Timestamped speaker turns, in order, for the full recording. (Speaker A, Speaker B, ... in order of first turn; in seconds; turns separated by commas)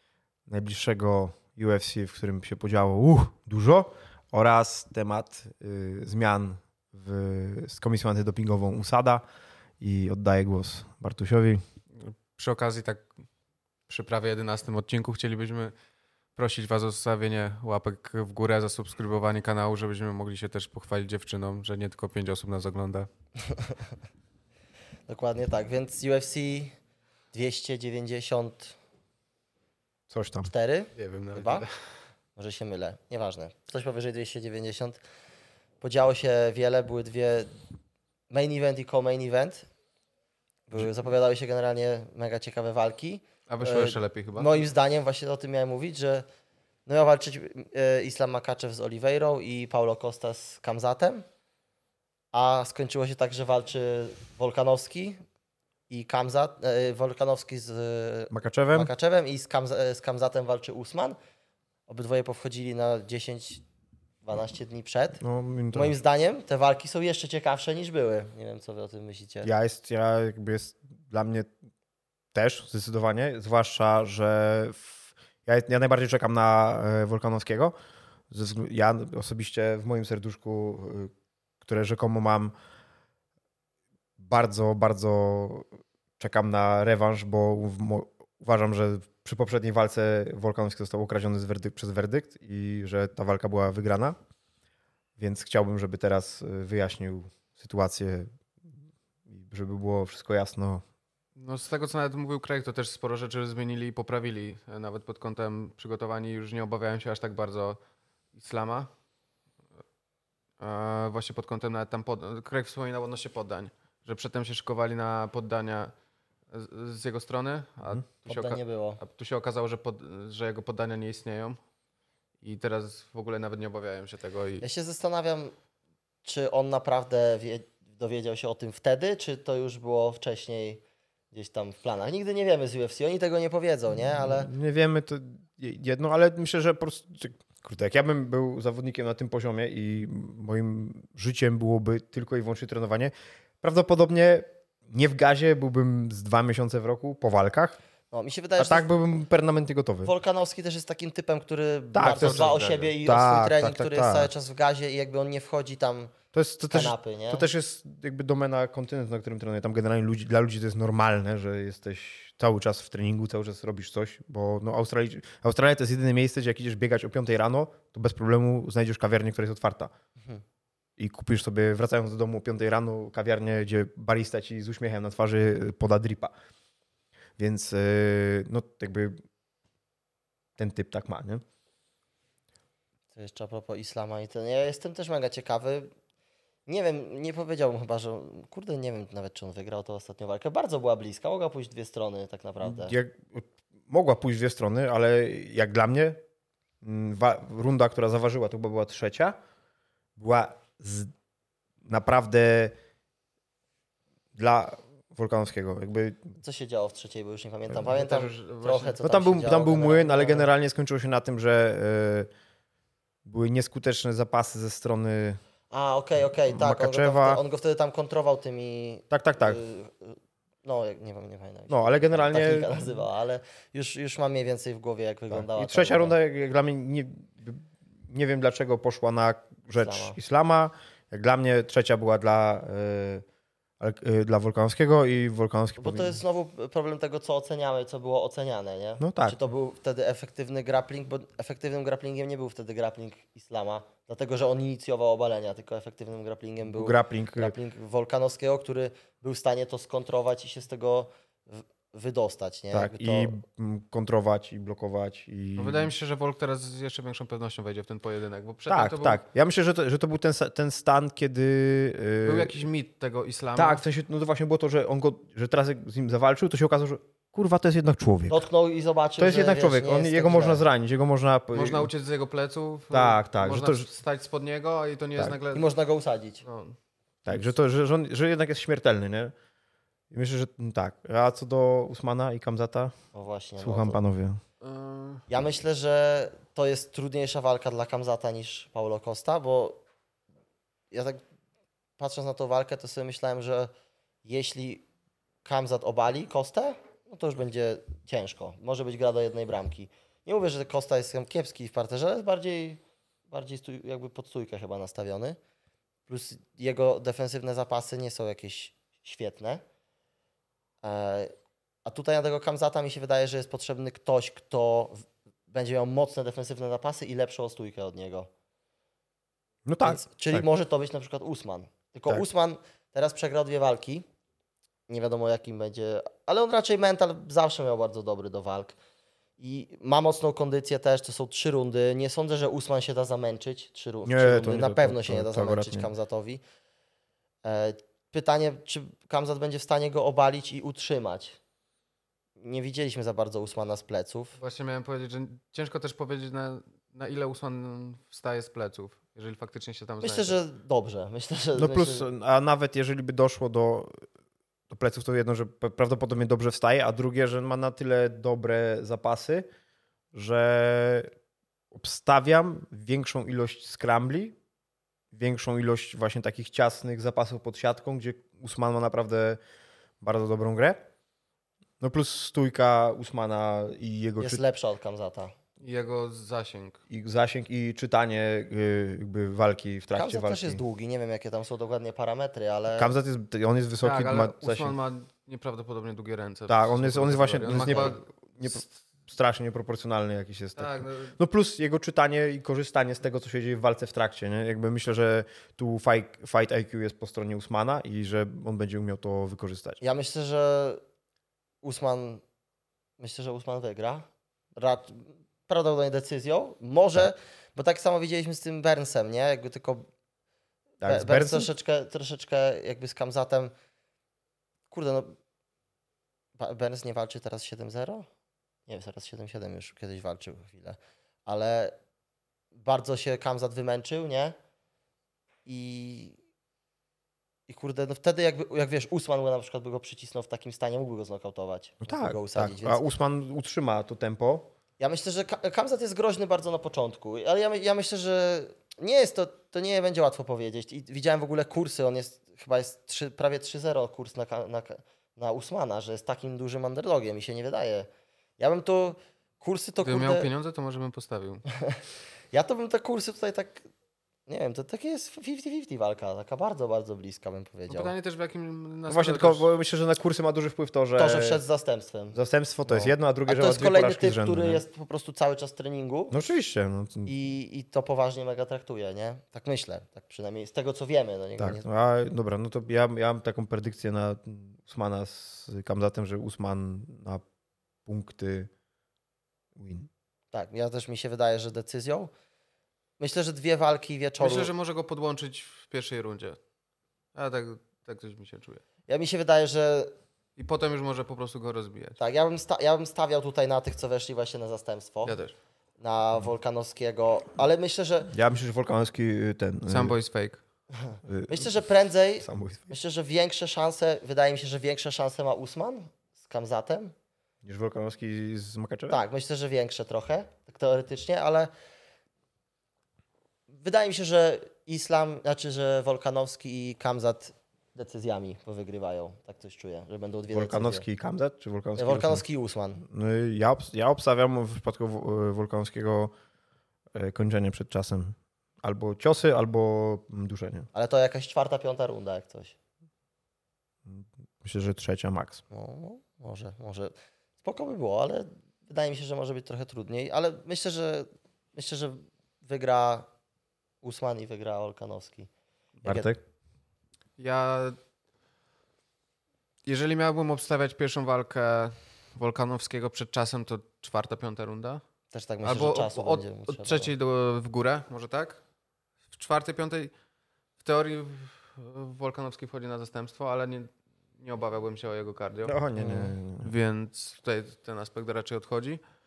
Speaker A: 0.5-9.2, Speaker A: 9.8-11.6, Speaker B: 11.9-13.1, Speaker B: 13.9-15.7, Speaker B: 16.4-23.1, Speaker C: 23.4-23.9, Speaker C: 25.1-26.7, Speaker C: 27.3-28.8, Speaker A: 30.1-30.5, Speaker C: 30.4-31.7, Speaker B: 31.0-31.7, Speaker C: 32.4-35.0, Speaker C: 35.8-37.5, Speaker C: 38.3-39.7, Speaker C: 40.7-46.2, Speaker B: 43.5-44.5, Speaker C: 46.9-51.2, Speaker C: 52.3-55.2, Speaker C: 55.9-61.2, Speaker A: 58.3-58.9, Speaker C: 61.9-63.6, Speaker C: 64.2-65.2, Speaker A: 65.2-65.9, Speaker C: 65.7-69.5, Speaker A: 69.4-71.5, Speaker A: 72.3-77.7, Speaker A: 78.3-81.1, Speaker A: 81.6-82.5, Speaker A: 84.2-85.7, Speaker A: 86.2-94.2, Speaker A: 95.2-98.3, Speaker A: 99.3-100.8, Speaker B: 101.4-107.8, Speaker B: 108.3-108.9, Speaker B: 110.6-115.9, Speaker B: 116.5-121.6, Speaker C: 118.2-119.0, Speaker B: 122.4-124.7, Speaker C: 124.6-125.5, Speaker C: 126.2-134.5, Speaker A: 133.9-147.8, Speaker C: 148.1-148.9, Speaker A: 148.6-150.1, Speaker C: 150.0-156.1, Speaker A: 151.9-154.3, Speaker B: 152.0-152.9, Speaker A: 156.3-169.9, Speaker C: 156.7-157.5, Speaker A: 171.0-176.3, Speaker A: 177.4-179.2, Speaker A: 180.6-181.4, Speaker C: 183.1-185.9, Speaker C: 186.7-192.9, Speaker A: 192.6-196.2, Speaker A: 196.8-199.4, Speaker A: 200.2-201.1, Speaker A: 201.8-202.7, Speaker A: 204.3-206.3, Speaker C: 206.4-210.5, Speaker B: 207.8-209.0, Speaker A: 209.0-212.3, Speaker A: 213.2-215.4, Speaker C: 215.7-226.1, Speaker A: 216.5-217.4, Speaker A: 219.1-219.6, Speaker A: 221.7-222.7, Speaker A: 225.3-233.2, Speaker C: 229.8-230.2, Speaker A: 233.8-236.2, Speaker C: 235.8-253.3, Speaker A: 239.0-239.4, Speaker A: 246.7-247.5, Speaker A: 252.7-255.9, Speaker B: 255.6-259.2, Speaker A: 258.7-262.6, Speaker B: 262.2-263.8, Speaker A: 263.6-268.4, Speaker C: 268.3-270.6, Speaker A: 269.2-271.9, Speaker B: 271.5-275.6, Speaker A: 272.9-273.9, Speaker C: 275.5-276.4, Speaker B: 276.4-276.8, Speaker A: 277.2-279.3, Speaker A: 280.1-282.9, Speaker C: 283.1-284.0, Speaker A: 283.6-284.4, Speaker B: 284.6-285.3, Speaker C: 285.3-289.8, Speaker C: 290.9-291.2, Speaker C: 292.0-293.7, Speaker C: 294.2-294.8, Speaker C: 295.4-305.4, Speaker C: 306.1-309.6, Speaker C: 310.8-311.3, Speaker C: 311.8-318.3, Speaker A: 319.6-320.4, Speaker C: 319.8-324.1, Speaker C: 324.9-328.7, Speaker C: 329.4-336.4, Speaker A: 334.1-335.9, Speaker C: 337.4-341.4, Speaker C: 342.4-344.4, Speaker B: 344.4-350.4, Speaker C: 350.0-352.0, Speaker A: 351.6-354.0, Speaker A: 354.7-359.5, Speaker A: 360.1-361.1, Speaker A: 361.7-364.4, Speaker A: 365.1-369.4, Speaker A: 370.0-370.8, Speaker A: 371.8-374.4, Speaker C: 374.2-375.3, Speaker B: 375.6-376.8, Speaker A: 376.9-380.6, Speaker C: 379.9-382.9, Speaker A: 382.7-384.8, Speaker B: 383.8-388.5, Speaker A: 386.5-399.8, Speaker C: 387.5-387.9, Speaker B: 390.6-391.1, Speaker C: 399.8-400.8, Speaker C: 401.6-402.2, Speaker C: 403.0-409.9, Speaker A: 410.8-411.5, Speaker C: 410.8-413.5, Speaker C: 414.7-415.1, Speaker C: 416.4-418.1, Speaker C: 418.7-421.8, Speaker C: 422.5-424.4, Speaker C: 425.4-426.2, Speaker C: 427.5-432.8, Speaker A: 431.8-434.5, Speaker C: 434.8-450.3, Speaker B: 449.8-451.4, Speaker C: 451.5-451.8, Speaker C: 452.3-453.6, Speaker C: 454.3-457.9, Speaker B: 457.7-459.5, Speaker A: 458.9-461.4, Speaker C: 460.9-466.1, Speaker A: 462.1-464.6, Speaker A: 466.1-467.1, Speaker C: 467.1-471.6, Speaker A: 471.4-477.2, Speaker A: 477.8-478.5, Speaker A: 479.6-479.9, Speaker C: 480.3-482.1, Speaker C: 483.0-484.5, Speaker B: 484.2-486.4, Speaker B: 487.1-488.6, Speaker C: 488.9-489.9, Speaker B: 490.4-492.0, Speaker C: 492.0-495.2, Speaker B: 495.0-495.3, Speaker C: 495.8-498.1, Speaker A: 498.1-499.9, Speaker B: 499.7-500.4, Speaker C: 500.7-506.9, Speaker A: 501.1-501.5, Speaker A: 502.2-502.8, Speaker A: 507.4-509.0, Speaker C: 508.9-511.5, Speaker C: 513.5-520.8, Speaker A: 520.3-522.2, Speaker C: 521.8-522.8, Speaker A: 522.8-526.1, Speaker A: 526.9-530.7, Speaker C: 530.7-532.5, Speaker A: 533.9-535.4, Speaker C: 535.5-543.1, Speaker C: 543.8-545.3, Speaker C: 545.8-546.1, Speaker A: 545.8-546.2, Speaker B: 547.2-547.8, Speaker B: 549.6-554.8, Speaker C: 555.1-556.9, Speaker B: 555.4-558.4, Speaker B: 559.1-559.9, Speaker B: 560.6-568.8, Speaker A: 565.4-566.5